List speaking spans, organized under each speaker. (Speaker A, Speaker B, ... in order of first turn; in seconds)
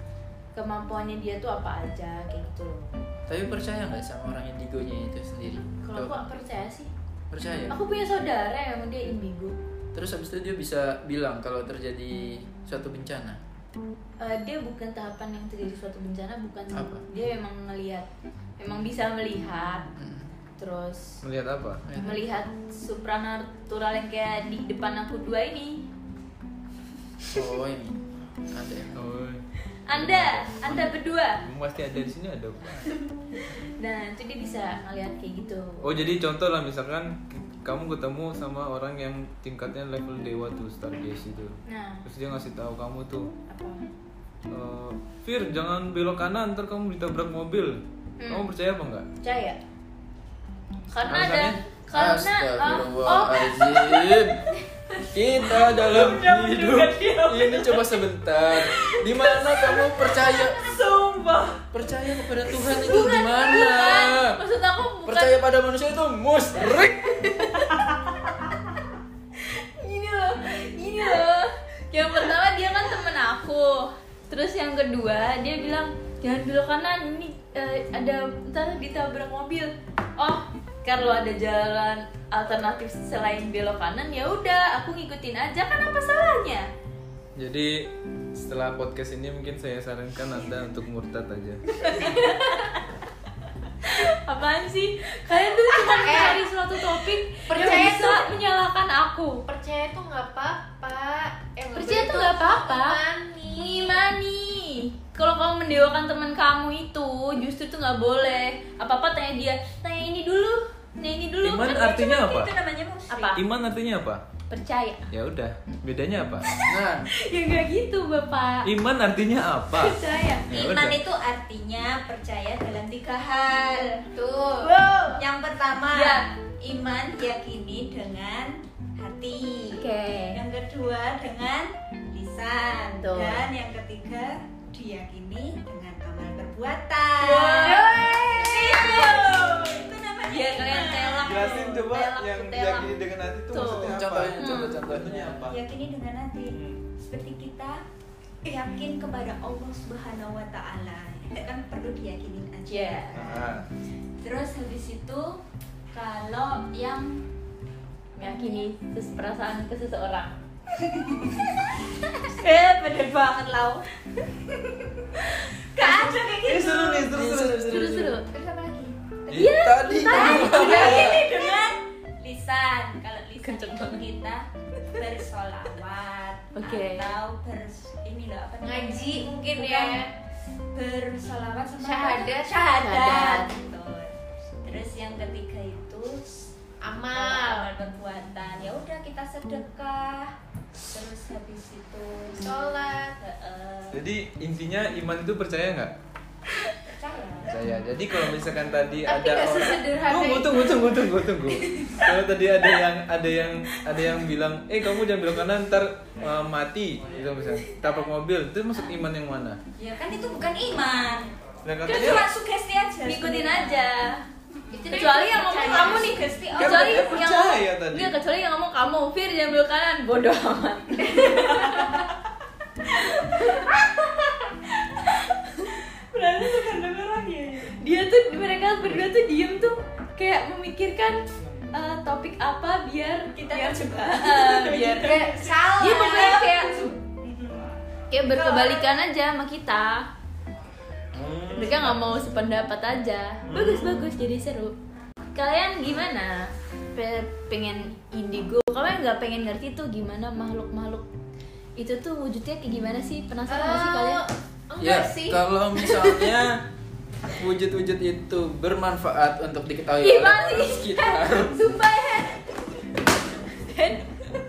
Speaker A: 0.5-3.0, 5.8-6.9, 7.7-9.6, 14.2-18.1, 18.6-19.9, 20.6-21.2, 22.0-25.9, 29.9-31.4, 33.5-36.0, 41.7-42.0, 43.5-43.8, 48.2-48.5, 49.2-49.6, 50.9-54.3, 62.6-65.4, 67.2-67.8, 69.4-86.7, 91.8-92.8, 93.8-99.4, 101.7-103.0, 103.5-112.0, 113.1-113.4, 114.5-115.1, 117.2-118.7, 119.7-120.5, 124.6-125.2, 125.9-126.3, 129.7-130.4, 133.0-133.4, 137.2-142.9, 143.5-144.8, 152.7-153.5, 158.2-160.3, 165.8-166.2, 167.6-168.3, 169.3-171.3, 173.4-174.0, 176.5-177.1, 182.8-183.5, 211.9-212.2, 213.0-214.2, 214.7-222.1, 222.9-223.8, 225.5-225.7, 227.8-236.9, 238.1-240.1, 241.5-244.7, 245.3-251.1, 251.8-254.2, 260.0-262.3, 263.7-264.0
Speaker B: 3.3-6.3, 7.3-7.8, 9.9-13.4, 16.7-17.0, 19.9-20.3, 21.9-22.2, 27.3-29.0, 51.9-54.4, 55.1-60.8, 61.7-64.4, 65.0-67.2, 116.6-117.0, 143.9-145.5, 167.0-168.2, 169.5-171.2, 254.8-256.6, 257.3-261.6
Speaker C: 21.2-21.8, 28.9-32.9, 35.8-43.3, 44.5-49.0, 51.1-51.6, 55.8-56.2, 87.4-91.9, 111.4-112.6, 113.3-114.2, 115.1-116.5, 118.6-121.0, 141.2-145.6, 146.5-146.8, 153.1-153.7, 166.4-168.1, 169.3-169.6, 193.9-195.9, 197.5-209.6, 211.6-212.3, 216.5-218.2, 231.4-231.8, 241.1-242.2, 243.4-244.1
Speaker D: 55.7-57.9, 58.6-61.6, 111.8-113.4, 120.5-124.0, 125.0-141.6, 145.5-147.8, 148.4-153.5, 154.2-155.4, 155.9-157.2, 158.2-158.7, 160.8-161.6, 162.3-167.1, 168.3-169.5, 170.0-180.0, 180.7-186.5, 187.1-192.6, 193.2-194.0, 196.8-197.6, 209.8-211.3, 211.9-213.9, 214.9-217.2, 221.0-222.1, 225.7-227.8, 233.3-237.6, 238.3-238.9
Speaker E: 95.7-96.4, 97.5-98.4, 99.5-104.0, 124.1-124.7, 178.6-180.1, 181.8-182.9, 186.8-187.7, 192.4-193.2, 199.1-201.1, 214.7-216.2, 234.9-236.9, 253.5-256.1, 261.7-262.2